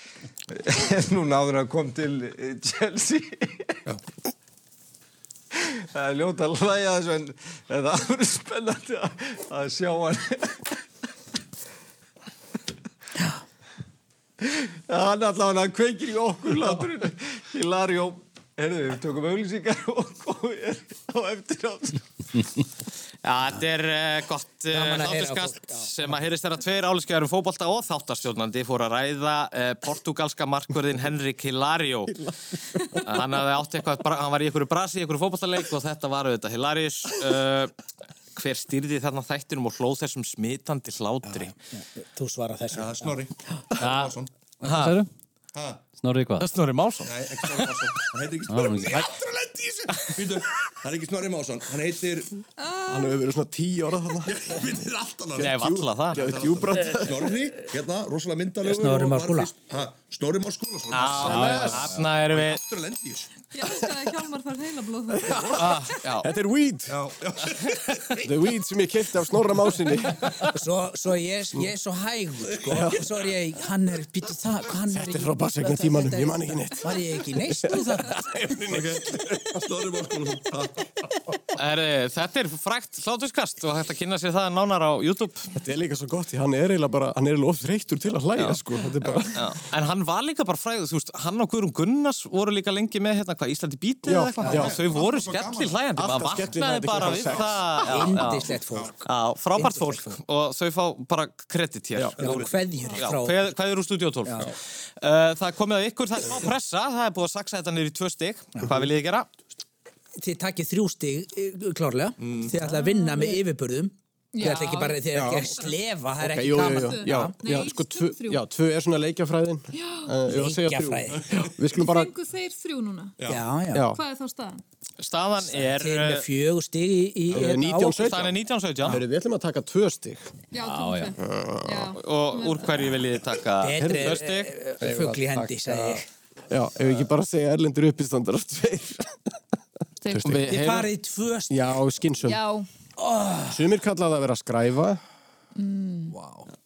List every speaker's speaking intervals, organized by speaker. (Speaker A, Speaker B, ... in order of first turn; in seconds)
Speaker A: 0.6-3.7, 5.7-10.6, 14.5-22.0
Speaker B: 23.2-32.2, 33.0-37.7, 38.3-41.5, 43.8-45.0, 46.4-47.8, 55.4-56.2, 60.9-62.6, 65.5-66.3, 81.5-85.5, 89.3-98.5, 99.0-102.3, 102.9-109.3, 125.0-126.2, 127.9-129.0, 131.9-134.5, 140.2-140.9
Speaker C: 24.7-25.9, 41.2-43.1, 58.6-59.5, 70.5-78.1, 97.8-100.2, 102.2-103.4, 110.2-117.3, 120.3-121.2, 123.3-123.9, 125.5-128.2, 133.6-136.0, 140.5-141.6, 143.0-143.6
Speaker D: 42.7-44.3, 45.5-45.9, 47.0-52.3, 54.2-63.3, 66.9-68.2, 72.5-73.0, 78.7-80.8, 94.4-95.9, 97.0-98.2, 102.2-102.5, 112.2-112.5, 123.2-123.4, 146.1-146.5
Speaker E: 44.6-45.1, 46.0-46.5, 48.5-49.0, 61.2-61.9, 130.6-131.1
Speaker F: 52.6-53.1, 63.5-65.5, 112.7-113.3, 114.3-115.0, 116.7-118.4, 119.7-120.1, 121.7-123.1, 123.9-124.6, 130.5-132.9, 140.0-140.3, 142.2-142.7, 145.6-146.2
Speaker G: 52.8-54.6, 55.4-57.5, 65.2-67.0, 68.2-70.3, 72.7-73.0, 74.9-79.4, 85.5-89.5, 94.0-94.7, 96.0-97.8, 115.1-115.5, 116.2-122.1, 123.7-124.0, 127.3-130.2, 133.8-134.2, 136.5-139.2, 141.5-142.4, 143.5-145.0